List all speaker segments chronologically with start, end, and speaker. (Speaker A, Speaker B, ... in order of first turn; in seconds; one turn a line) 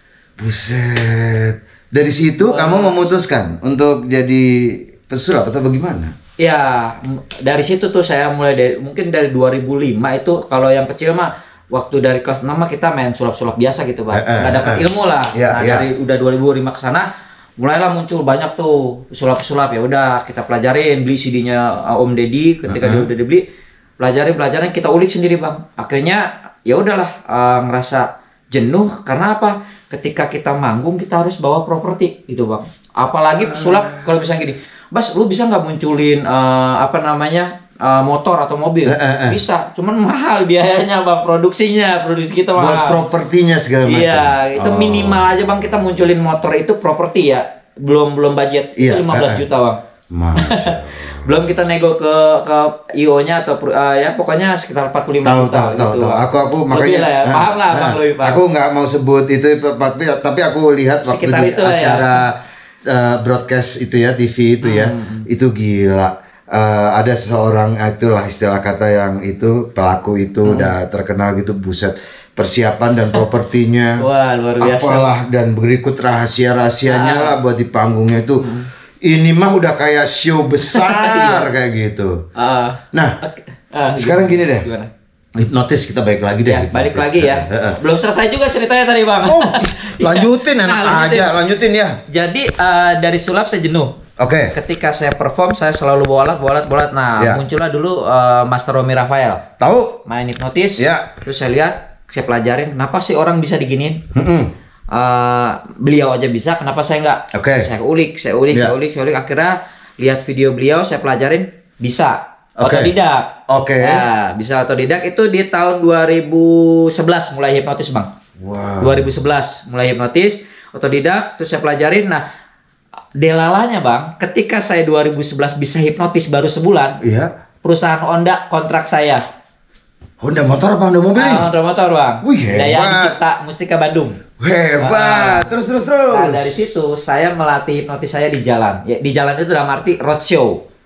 Speaker A: 0.4-6.1
Speaker B: 2.4-3.1
Speaker B: 6.4-17.1
Speaker A: 14.1-15.9
Speaker B: 17.6-23.4
Speaker A: 22.7-23.1
Speaker B: 24.0-43.0
Speaker A: 33.4-34.1
Speaker A: 38.9-39.4
Speaker A: 42.5-45.3
Speaker B: 43.8-49.8
Speaker A: 48.8-49.4
Speaker A: 50.1-51.5
Speaker B: 50.4-58.4
Speaker A: 55.2-62.4
Speaker B: 61.0-62.1
Speaker A: 62.9-74.0
Speaker B: 64.6-65.3
Speaker B: 70.4-70.7
Speaker B: 74.0-75.1
Speaker A: 74.6-78.5
Speaker B: 76.9-77.3
Speaker B: 78.4-78.7
Speaker A: 79.0-82.2
Speaker B: 80.7-81.5
Speaker B: 82.4-84.9
Speaker A: 82.9-83.2
Speaker A: 84.0-84.7
Speaker A: 85.3-87.8
Speaker B: 86.5-91.3
Speaker A: 89.2-92.0
Speaker B: 92.1-94.0
Speaker A: 94.2-94.5
Speaker B: 94.5-99.4
Speaker A: 99.6-100.0
Speaker B: 100.0-104.0
Speaker A: 100.8-101.1
Speaker A: 104.1-104.5
Speaker B: 104.9-118.1
Speaker A: 107.3-107.7
Speaker A: 112.6-112.9
Speaker A: 113.5-114.0
Speaker A: 118.4-119.1
Speaker B: 118.8-122.2
Speaker B: 123.2-127.0
Speaker A: 127.0-127.3
Speaker B: 127.6-129.2
Speaker A: 130.2-131.5
Speaker B: 131.1-134.2
Speaker A: 132.2-133.2
Speaker A: 134.4-136.5
Speaker B: 134.8-135.5
Speaker B: 136.1-140.6